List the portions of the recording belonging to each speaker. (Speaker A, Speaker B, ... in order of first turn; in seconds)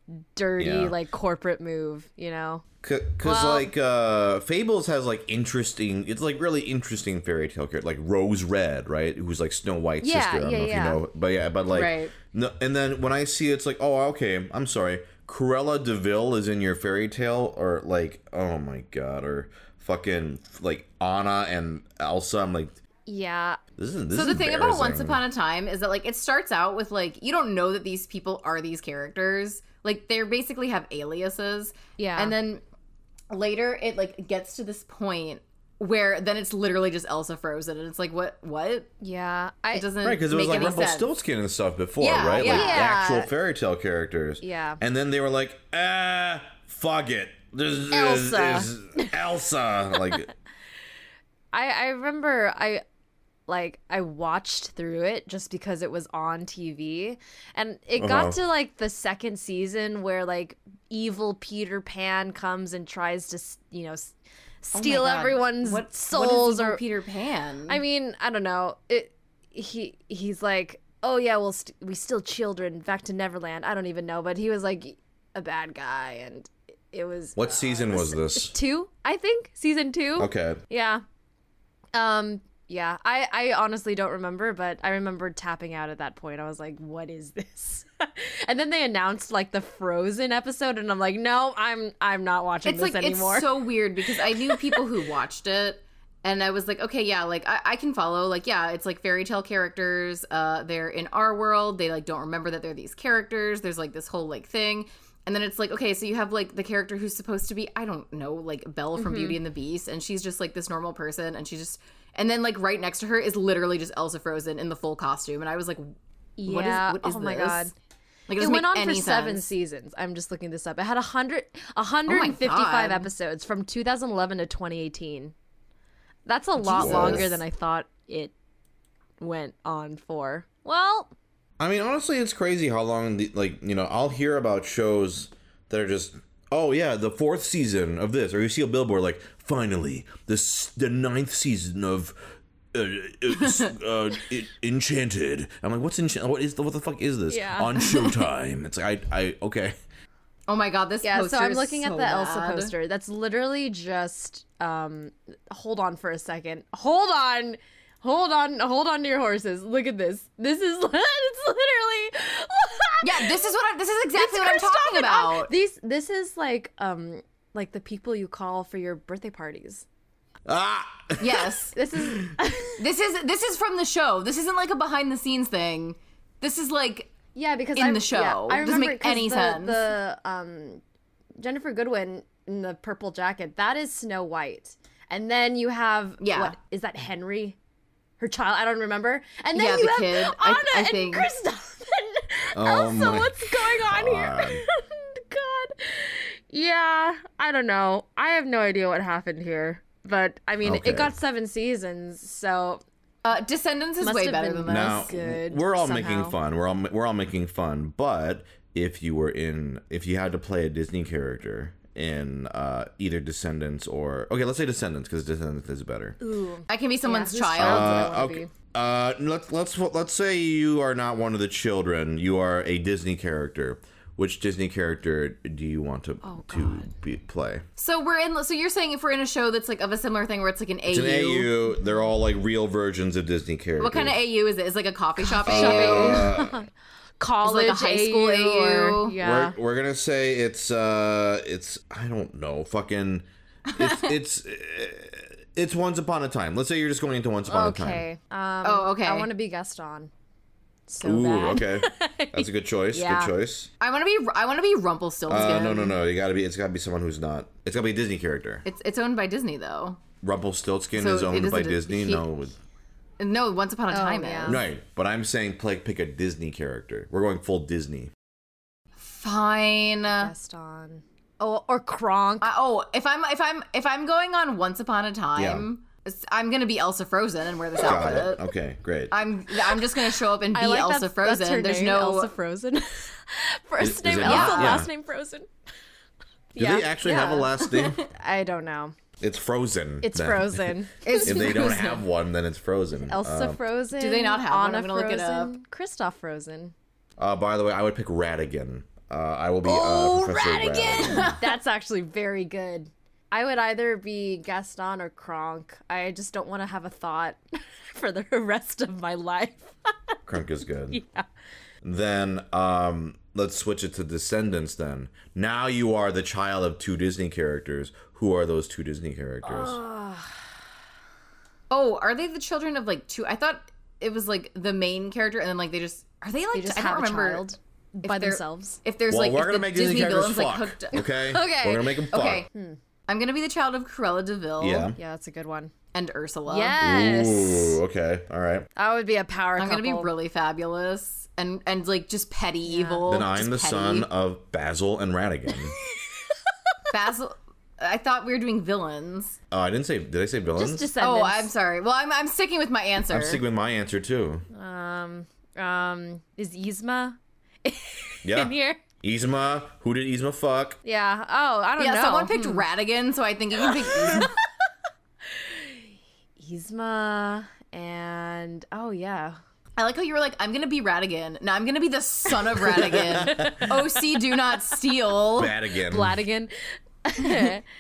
Speaker A: 0.3-2.6, 3.2-3.7, 10.0-11.0, 23.1-23.6, 32.0-32.4, 39.0-39.9, 42.4-43.3, 44.4-44.8, 47.9-49.1, 51.5-52.8, 53.5-66.8, 67.7-81.0, 81.9-94.9, 109.0-109.4, 116.4-117.7, 118.4-125.3, 126.3-128.3, 129.2-131.1, 147.3-147.8, 151.0-163.4, 164.2-169.8, 171.7-172.8, 177.3-180.8, 181.4-187.6, 188.2-202.8, 204.0-206.3, 216.2-218.5, 226.2-226.9, 235.2-236.7, 237.2-239.6, 247.5-250.1, 250.9-253.3, 263.9-264.6, 270.1-272.5, 280.5-285.5, 286.6-288.9, 290.0-291.7, 293.1-296.7, 299.6-309.9, 310.9-311.3, 319.4-320.5, 326.5-328.8, 331.0-332.8, 335.0-335.7, 336.5-337.8, 338.8-340.1, 342.7-343.0, 345.5-346.0, 350.5-351.5, 354.5-358.8, 360.8-362.7, 363.7-364.3, 365.2-369.4, 372.7-373.8, 375.9-376.5, 377.0-377.6
Speaker B: 0.6-1.0, 2.8-22.8, 23.8-25.2, 40.0-50.3, 58.0-58.4, 77.4-78.5, 80.2-80.6, 126.7-127.4, 131.6-149.8, 170.5-172.4, 192.5-194.6, 200.6-201.1, 204.7-216.2, 217.6-227.6, 230.9-234.2, 235.5-236.6, 239.2-248.1, 251.0-253.7, 255.3-258.6, 260.2-262.6, 264.5-268.1, 275.4-275.7, 277.8-279.1, 283.8-284.9, 286.6-288.0, 289.2-293.6, 297.2-301.4, 310.3-311.0, 311.8-319.8, 329.1-332.4, 334.6-335.0, 336.8-338.7, 343.1-345.8, 349.5-350.9, 353.1-354.4, 358.2-360.8, 372.9-373.6, 375.4-376.2
Speaker C: 11.7-12.1, 24.1-32.6, 33.3-38.9, 39.7-41.1, 42.0-42.8, 64.7-67.8, 92.7-115.8, 116.5-117.7, 118.3-119.5, 122.1-123.1, 126.6-127.3, 143.4-143.7, 150.5-152.7, 163.0-165.5, 171.2-171.8, 172.8-177.2, 177.8-179.9, 186.2-186.6, 189.6-191.3, 203.2-205.1, 216.7-218.1, 227.8-231.5, 233.8-236.3, 237.4-239.2, 243.7-244.1, 248.6-249.3, 253.8-256.0, 258.6-260.0, 261.0-262.2, 263.2-264.6, 269.0-270.3, 272.4-278.4, 279.1-282.3, 284.2-284.8, 287.2-288.1, 291.1-292.0, 294.0-295.5, 321.7-327.4, 328.0-331.0, 332.1-332.5, 333.1-334.9, 335.9-336.8, 339.6-344.1, 346.9-349.4, 351.0-353.4, 361.8-364.3, 369.8-375.6